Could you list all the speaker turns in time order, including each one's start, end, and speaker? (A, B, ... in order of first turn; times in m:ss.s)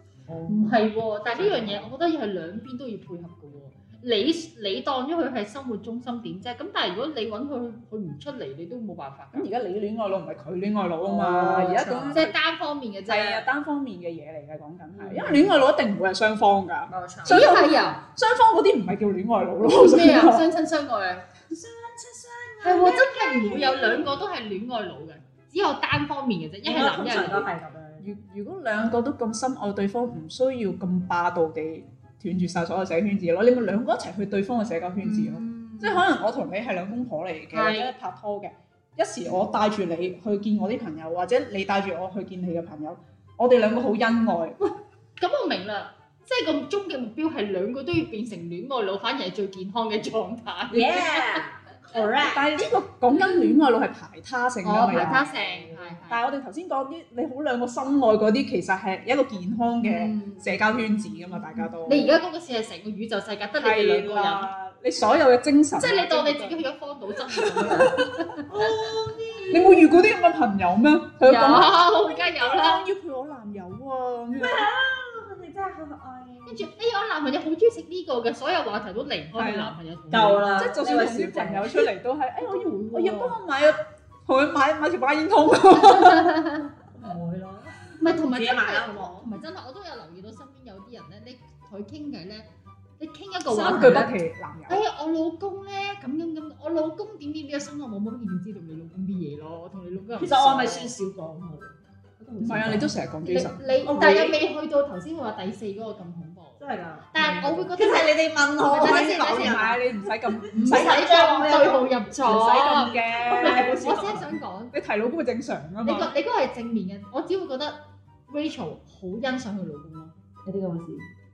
0:00.3-0:00.8 A
0:00.5-0:09.5 B
0:01.3-0:01.9 A
0:09.3-0:12.4 C
0:11.0-0:12.2 A
0:12.1-0:13.5 B
0:13.1-0:20.5 C
0:15.0-0:15.4 B
0:15.1-0:15.4 A
0:16.9-0:18.0 B
0:19.6-0:21.3 B
0:21.5-0:24.1 A
0:22.6-0:27.5 B
0:26.6-0:28.1 A
0:28.0-0:44.6 C
0:35.0-0:36.0 B
0:37.5-0:37.9 B
0:45.2-0:51.4 B
0:50.7-0:52.5 A
0:52.2-0:55.2 C
0:54.6-0:56.2 B
0:54.9-0:56.0 A
0:56.1-1:02.2 C
0:59.8-1:00.6 B
1:01.8-1:04.5 B
1:03.6-1:06.6 C
1:05.8-1:08.7 B
1:07.4-1:08.3 C
1:08.4-1:10.0 A
1:09.5-1:14.7 C
1:11.2-1:12.9 B
1:14.4-1:16.7 A
1:16.5-1:20.6 B
1:19.4-1:19.8 C
1:20.1-1:21.9 A
1:20.5-1:26.4 C
1:22.4-1:23.4 B
1:25.7-1:26.8 B
1:26.9-1:29.3 A
1:28.0-1:32.5 B
1:33.0-1:34.2 B
1:33.5-1:34.8 C
1:34.7-1:40.9 B
1:40.2-1:43.0 A
1:42.4-1:43.6 C
1:43.2-1:49.7 B
1:43.9-1:44.4 A
1:46.6-1:52.0 A
1:48.6-1:51.0 C
1:50.5-1:54.7 B
1:52.2-1:53.7 C
1:52.9-1:54.4 A
1:54.7-1:56.1 C
1:55.8-2:00.1 B
2:00.4-2:01.1 A